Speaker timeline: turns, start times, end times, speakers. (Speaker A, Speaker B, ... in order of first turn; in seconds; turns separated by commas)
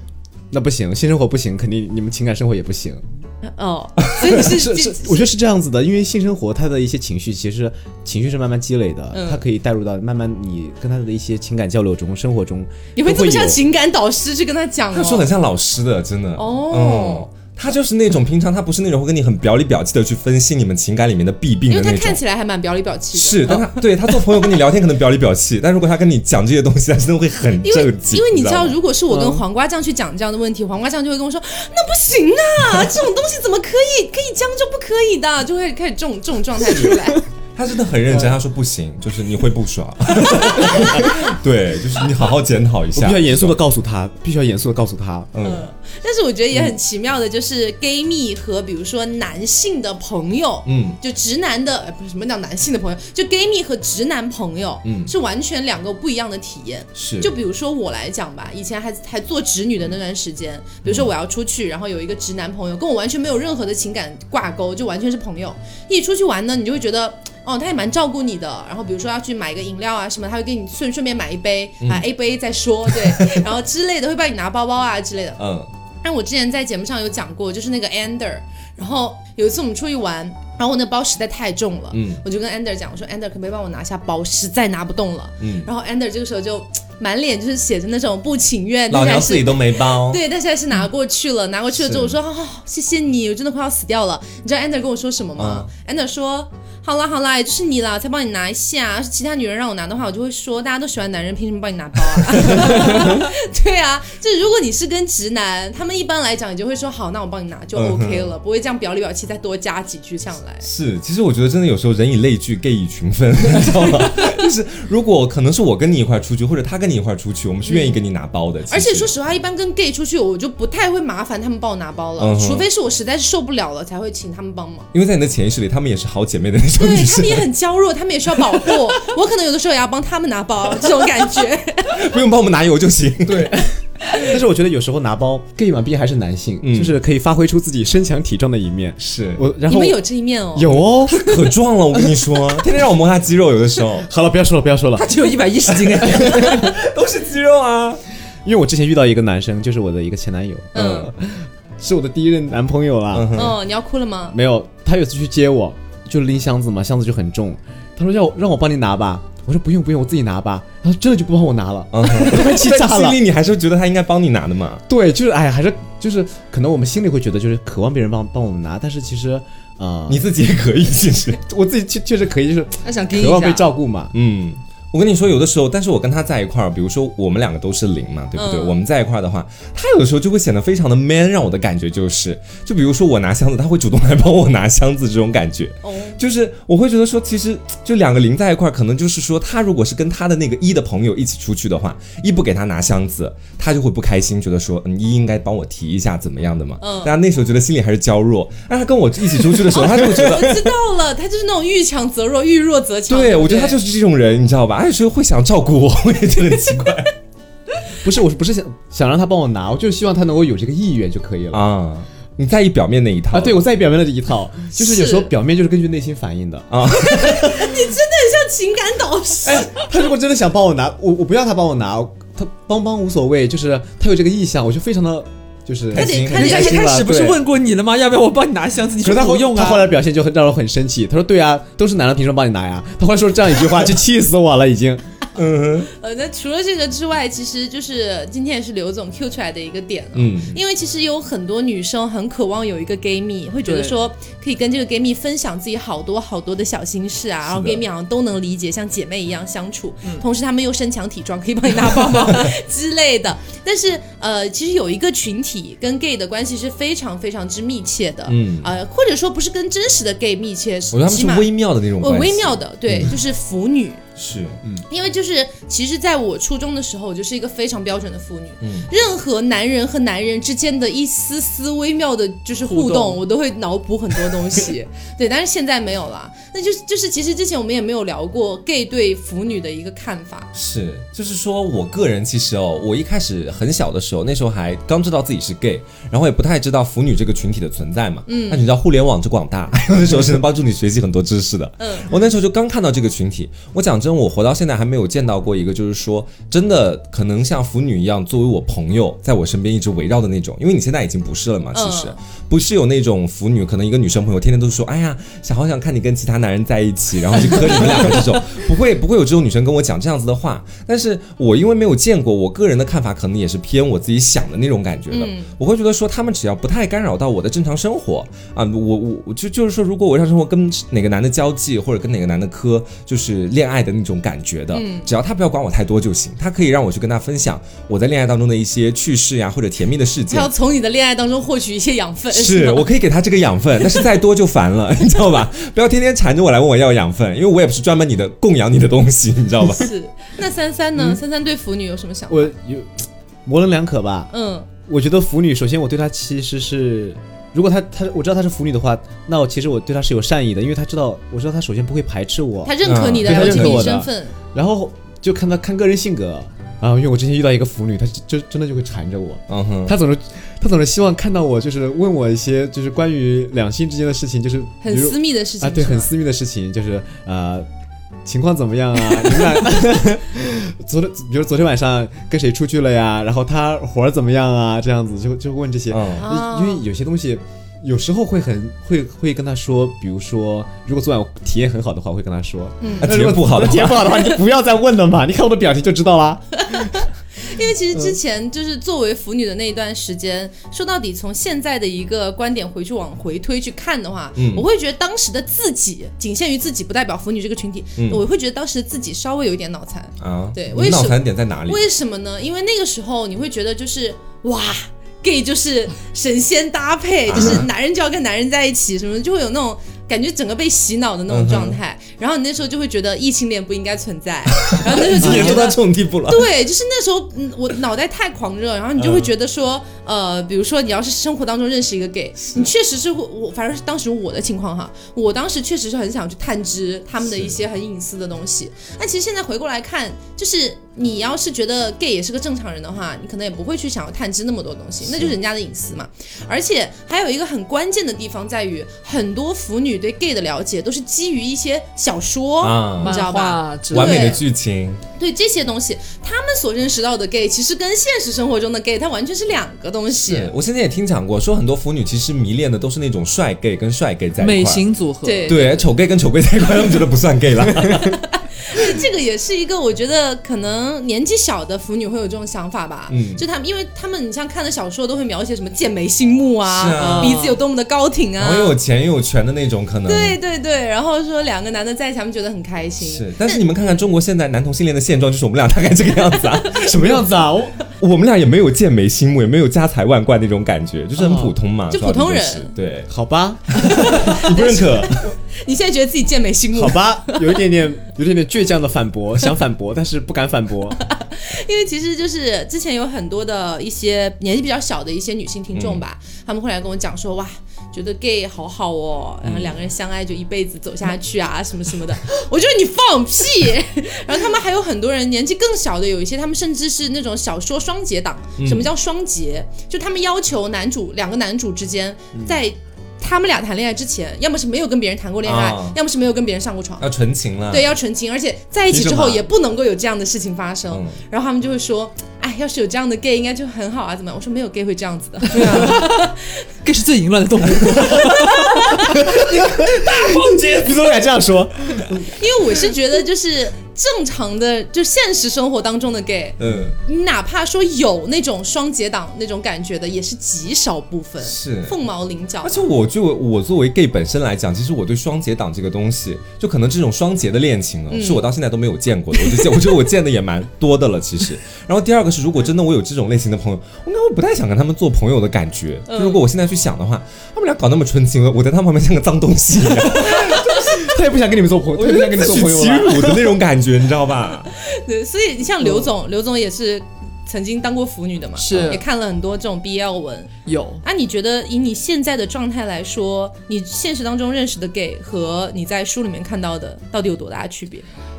Speaker A: 0.5-3.0, Speaker B: 3.4-5.3, Speaker C: 4.0-4.4, Speaker A: 4.3-13.6, Speaker B: 9.1-9.4, Speaker B: 13.0-15.3, Speaker C: 14.9-22.2, Speaker B: 16.4-17.3, Speaker B: 21.7-23.8, Speaker C: 23.1-28.8, Speaker B: 27.6-37.2, Speaker A: 29.1-29.4, Speaker C: 37.5-43.6, Speaker A: 38.1-38.3, Speaker A: 40.8-41.0, Speaker A: 42.9-45.3, Speaker C: 45.3-45.7, Speaker B: 45.4-75.4, Speaker C: 50.7-51.0, Speaker C: 54.8-55.1, Speaker C: 57.0-57.3, Speaker C: 60.8-61.1, Speaker C: 71.8-72.1, Speaker C: 73.1-73.4, Speaker C: 75.4-75.7, Speaker B: 76.0-110.7, Speaker C: 81.9-82.2, Speaker C: 85.4-85.7, Speaker C: 88.9-90.2, Speaker C: 91.8-92.2, Speaker C: 95.4-95.7, Speaker C: 102.4-103.1, Speaker C: 107.8-108.3, Speaker C: 110.6-119.1, Speaker B: 117.7-118.0, Speaker B: 118.7-124.9, Speaker C: 122.2-122.7, Speaker C: 124.9-127.5, Speaker B: 126.8-132.0, Speaker C: 131.9-133.7, Speaker A: 133.2-140.0, Speaker C: 136.6-136.9, Speaker C: 139.0-139.4, Speaker B: 139.7-141.3, Speaker A: 140.6-141.2, Speaker C: 141.1-144.1, Speaker A: 141.9-142.7, Speaker A: 144.0-145.1, Speaker D: 145.0-146.7, Speaker A: 146.0-146.7, Speaker C: 146.0-148.0, Speaker A: 148.4-153.6, Speaker B: 150.7-151.1, Speaker C: 150.8-151.1, Speaker C: 153.1-153.6, Speaker B: 153.3-154.4, Speaker A: 154.3-163.2, Speaker C: 161.9-164.8, Speaker A: 164.9-170.3, Speaker C: 170.1-171.4, Speaker A: 171.5-174.1, Speaker D: 172.8-173.7, Speaker C: 174.1-200.7, Speaker B: 178.3-178.8, Speaker B: 185.8-186.2, Speaker B: 196.8-197.1, Speaker B: 199.7-203.8, Speaker C: 203.1-207.1, Speaker A: 208.0-211.7, Speaker C: 211.5-213.6, Speaker A: 213.3-216.7, Speaker B: 214.8-215.3, Speaker C: 216.7-217.7, Speaker B: 216.9-219.7, Speaker A: 219.4-227.4, Speaker C: 225.9-226.6, Speaker B: 225.9-227.0, Speaker D: 226.3-229.9, Speaker A: 229.0-235.0, Speaker C: 235.4-235.9, Speaker B: 235.9-264.0, Speaker C: 240.1-240.6, Speaker D: 243.7-244.0, Speaker C: 247.4-247.8, Speaker C: 258.3-258.7, Speaker C: 260.9-263.1, Speaker C: 264.2-264.6, Speaker B: 264.9-280.5, Speaker C: 268.6-268.9, Speaker D: 272.7-273.2, Speaker C: 280.5-330.5, Speaker B: 288.3-288.6, Speaker B: 291.8-292.1, Speaker B: 301.7-302.2, Speaker B: 315.1-315.5, Speaker B: 324.7-325.1, Speaker B: 330.3-332.9, Speaker C: 332.3-339.9, Speaker B: 339.7-342.5, Speaker A: 342.3-344.3, Speaker B: 344.3-344.7, Speaker A: 344.8-367.7, Speaker B: 352.6-354.4, Speaker C: 352.8-353.9, Speaker C: 359.5-360.0, Speaker B: 364.8-366.1, Speaker A: 368.2-386.9, Speaker C: 375.9-376.3, Speaker B: 376.2-376.8, Speaker B: 382.8-383.1, Speaker C: 383.0-384.4, Speaker B: 386.6-444.4, Speaker C: 394.4-394.6, Speaker C: 398.0-398.2, Speaker C: 400.2-401.8, Speaker C: 407.3-407.7, Speaker C: 411.3-411.8, Speaker C: 414.6-416.5, Speaker A: 415.2-415.6, Speaker C: 419.0-419.3, Speaker C: 422.4-422.7, Speaker C: 427.2-427.6, Speaker C: 435.0-435.4, Speaker C: 442.6-443.2, Speaker D: 443.0-444.4, Speaker C: 443.9-445.0, Speaker B: 445.2-450.5, Speaker C: 450.2-454.9, Speaker D: 454.4-455.6, Speaker B: 455.2-455.9, Speaker C: 455.5-458.2, Speaker B: 458.0-468.8, Speaker C: 463.1-463.4, Speaker C: 466.6-467.4, Speaker D: 467.0-467.6, Speaker C: 468.4-470.4, Speaker B: 470.1-473.6, Speaker C: 473.0-477.3, Speaker B: 476.5-477.1, Speaker A: 476.8-477.8, Speaker C: 478.0-483.1, Speaker A: 481.2-481.6, Speaker B: 481.9-482.7, Speaker A: 483.1-484.3, Speaker C: 483.7-485.3, Speaker B: 483.8-487.6, Speaker A: 486.7-491.0, Speaker B: 491.0-517.1, Speaker C: 495.7-496.0, Speaker C: 499.4-499.8, Speaker C: 508.6-508.9, Speaker C: 515.4-516.0, Speaker C: 517.0-517.9, Speaker B: 517.7-526.6, Speaker C: 518.9-519.4, Speaker C: 520.9-521.2, Speaker D: 525.5-526.3, Speaker D: 526.8-528.8, Speaker B: 528.0-529.1, Speaker A: 529.2-532.4, Speaker C: 529.2-531.2, Speaker B: 532.3-542.8, Speaker C: 536.6-537.0, Speaker C: 541.4-542.0, Speaker C: 542.6-561.0, Speaker B: 548.1-548.4, Speaker B: 549.4-549.7, Speaker B: 556.1-556.4, Speaker A: 560.1-563.6, Speaker B: 560.5-560.8, Speaker C: 562.0-564.7, Speaker B: 564.8-570.5, Speaker D: 568.6-569.0, Speaker D: 570.7-571.0, Speaker B: 571.0-578.1